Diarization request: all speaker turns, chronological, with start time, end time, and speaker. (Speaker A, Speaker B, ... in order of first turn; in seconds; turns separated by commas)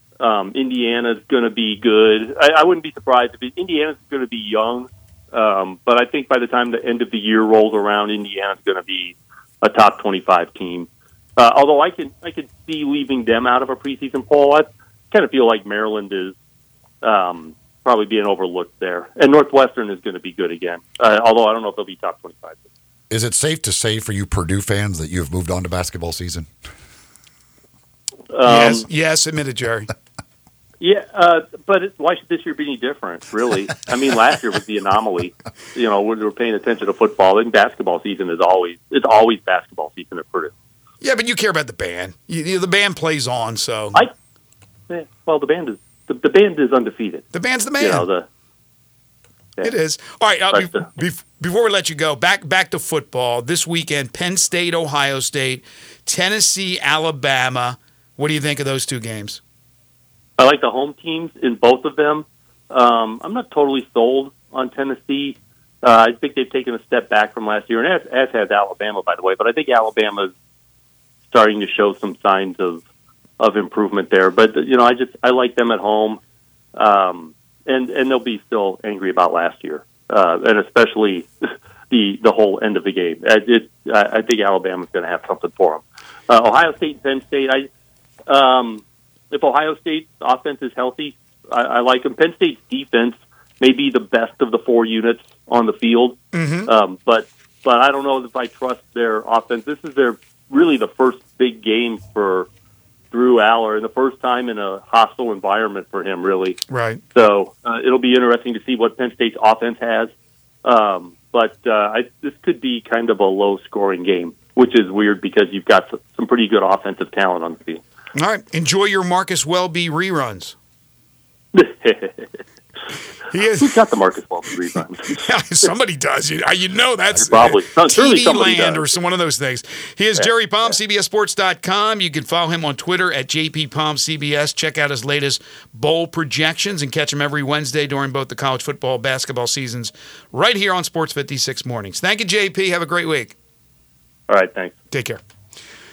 Speaker A: 0.2-16.4, Speaker A: 17.0-22.6, Speaker B: 23.1-26.5, Speaker A: 28.3-28.9, Speaker C: 28.4-29.9, Speaker A: 30.8-40.5, Speaker C: 41.0-44.0, Speaker A: 44.9-47.2, Speaker C: 47.3-48.1, Speaker A: 47.8-48.2, Speaker C: 49.6-59.4, Speaker A: 50.5-50.8, Speaker A: 60.4-70.3, Speaker A: 71.3-72.8, Speaker A: 73.4-76.2, Speaker A: 76.8-81.3, Speaker A: 81.9-87.7, Speaker A: 88.3-102.5, Speaker C: 96.3-96.7, Speaker A: 103.1-106.6, Speaker C: 106.7-107.0, Speaker A: 107.1-110.1, Speaker A: 110.6-117.8, Speaker C: 118.1-120.5, Speaker A: 121.5-122.4, Speaker C: 123.3-123.9, Speaker A: 123.6-125.2, Speaker C: 125.1-143.3, Speaker A: 127.2-129.0, Speaker A: 130.2-130.8, Speaker A: 144.3-144.7, Speaker C: 144.9-145.2